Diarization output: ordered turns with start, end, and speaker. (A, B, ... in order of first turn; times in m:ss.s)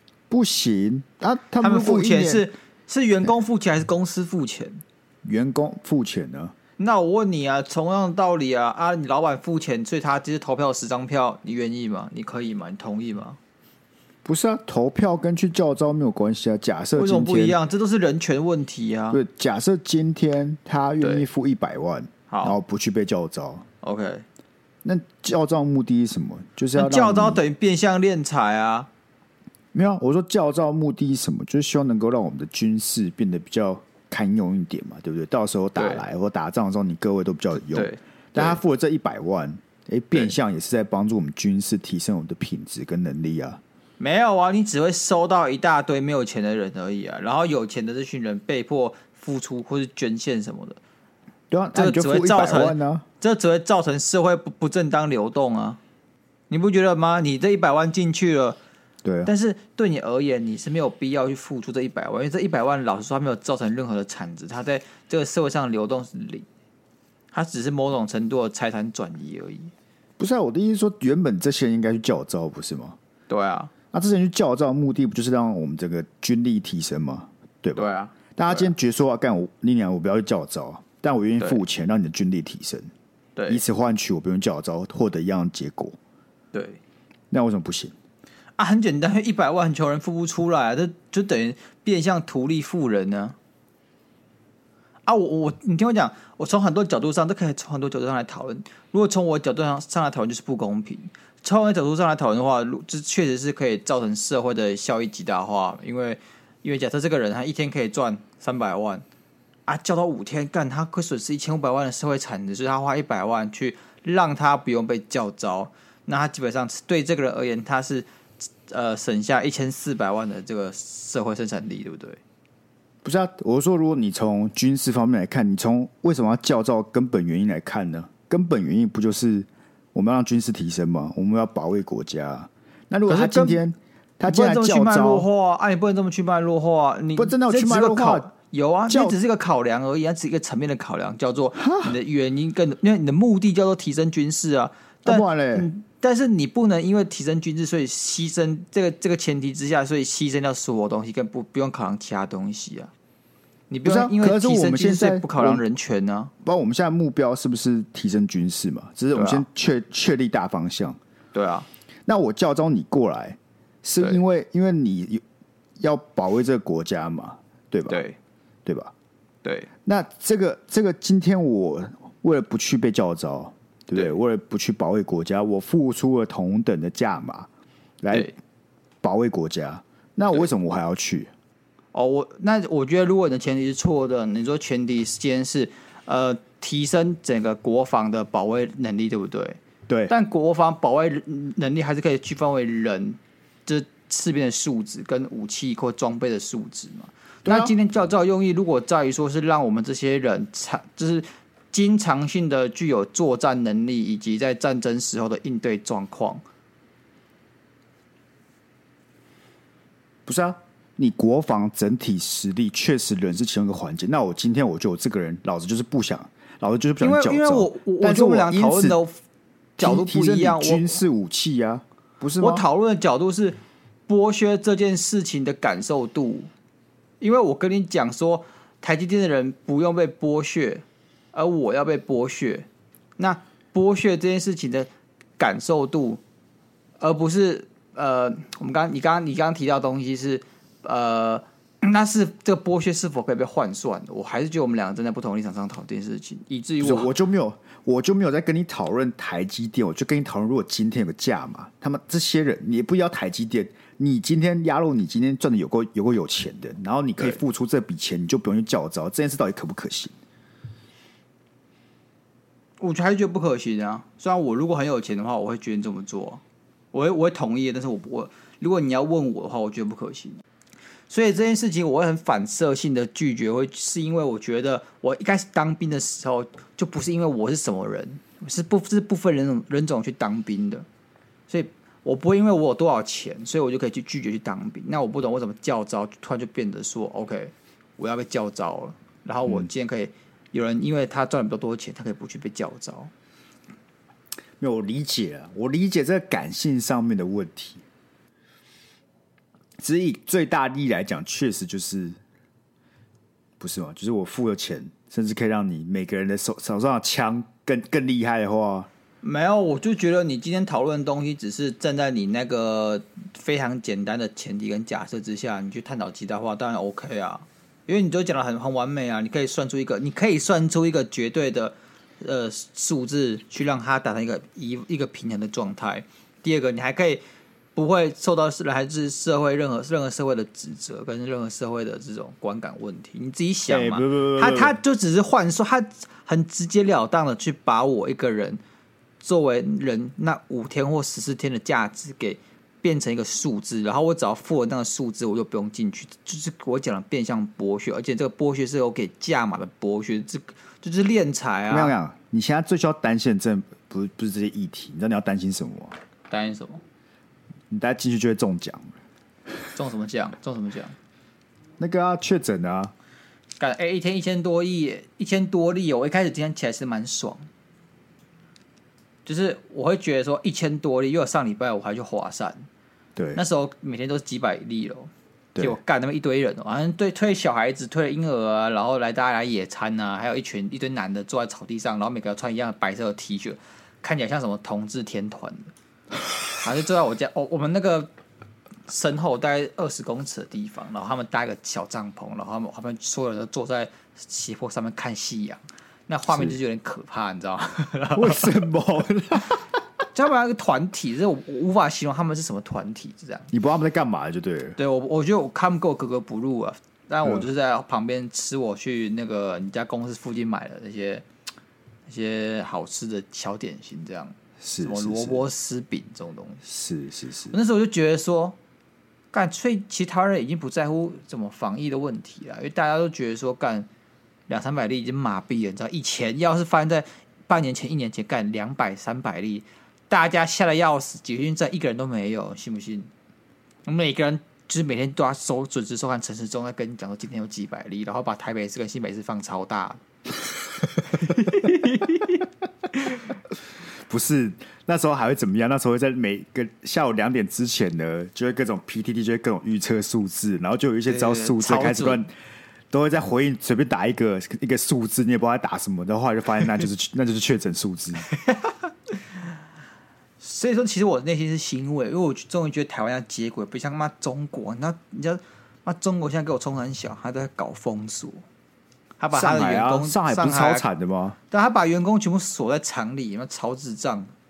0:00.3-0:02.5 A
0:01.6-0:04.8 B
0:05.2-0:06.5 A
0:06.8-0:13.4 B
0:14.2-0:17.6 A
0:17.0-0:19.2 B
0:19.1-0:23.7 A
0:21.0-0:21.3 B
0:22.3-0:22.6 B
0:23.8-0:24.2 B
0:24.8-0:27.4 A
0:26.8-0:28.9 B
0:29.7-0:43.6 A
0:35.8-0:36.0 B
0:37.7-0:38.6 B
0:44.0-0:50.8 B
0:51.5-0:53.0 A
0:51.7-0:55.8 B
0:56.5-0:58.6 B
0:59.0-0:59.3 A
0:59.2-1:06.5 B
1:07.3-1:09.7 B
1:10.2-1:13.0 A
1:13.3-1:13.7 B
1:13.9-1:22.9 A
1:17.8-1:18.7 B
1:23.4-1:23.6 B
1:23.5-1:26.0 A
1:26.5-1:26.8 B
1:27.3-1:27.9 A
1:28.6-1:33.4 B
1:35.0-1:49.0 B
1:49.7-2:02.2 B
2:03.0-2:15.3 A
2:13.1-2:13.6 B
2:14.3-2:32.9 B
2:17.2-2:18.3 A
2:18.9-2:19.2 A
2:21.6-2:21.9 A
2:25.0-2:25.7 A
2:33.7-2:36.3 B
2:33.8-2:35.6 A
2:36.4-2:41.0 A
2:39.1-2:39.4 B
2:41.3-2:41.7 B
2:42.1-2:45.2 A
2:45.8-2:48.0 A
2:47.9-2:48.2 B
2:48.6-2:48.9 A
2:49.4-2:49.7 B
2:49.9-2:57.5 A
2:58.0-2:58.4 A
2:59.0-3:01.3 A
3:01.9-3:26.4 B
3:09.9-3:10.1 A
3:17.4-3:17.7 A
3:30.3-3:39.0 A
3:37.0-3:39.2 B
3:39.8-3:42.6 A
3:39.8-3:41.0 B
3:42.4-3:46.5 B
3:47.2-3:56.2 B
3:57.0-4:07.1 B
4:06.8-4:20.1 A
4:22.8-4:26.4 B
4:26.9-4:30.4 B
4:31.1-4:40.9 B
4:41.5-4:53.1 B
4:54.6-4:57.8 A
4:59.8-5:02.2 A
5:03.6-5:08.9 A
5:09.2-5:27.2 B
5:27.8-5:38.6 B
5:33.7-5:34.8 A
5:39.2-5:52.0 B
5:51.7-5:56.0 A
5:56.3-5:56.8 B
5:57.7-5:59.0 A
5:59.8-6:01.0 B
6:01.8-6:02.9 A
6:03.6-6:07.5 B
6:09.3-6:12.7 B
6:13.2-6:13.4 A
6:13.4-6:25.7 B
6:26.6-6:28.1 B
6:28.9-6:38.6 B
6:36.3-6:36.6 A
6:38.1-6:39.7 A
6:40.1-6:43.5 B
6:43.5-6:44.8 A
6:44.8-6:51.2 B
6:52.1-6:56.6 B
6:54.6-6:55.5 A
6:56.6-6:57.5 A
6:57.5-6:58.6 B
6:59.3-7:03.9 B
7:04.5-7:13.1 B
7:13.8-7:20.0 B
7:21.1-7:23.2 B
7:24.1-7:32.3 A
7:31.1-7:32.2 B
7:32.9-7:38.3 A
7:38.3-7:39.2 B
7:40.4-7:48.4 B
7:49.2-7:50.9 B
7:49.3-7:51.4 A
7:51.5-7:54.3 B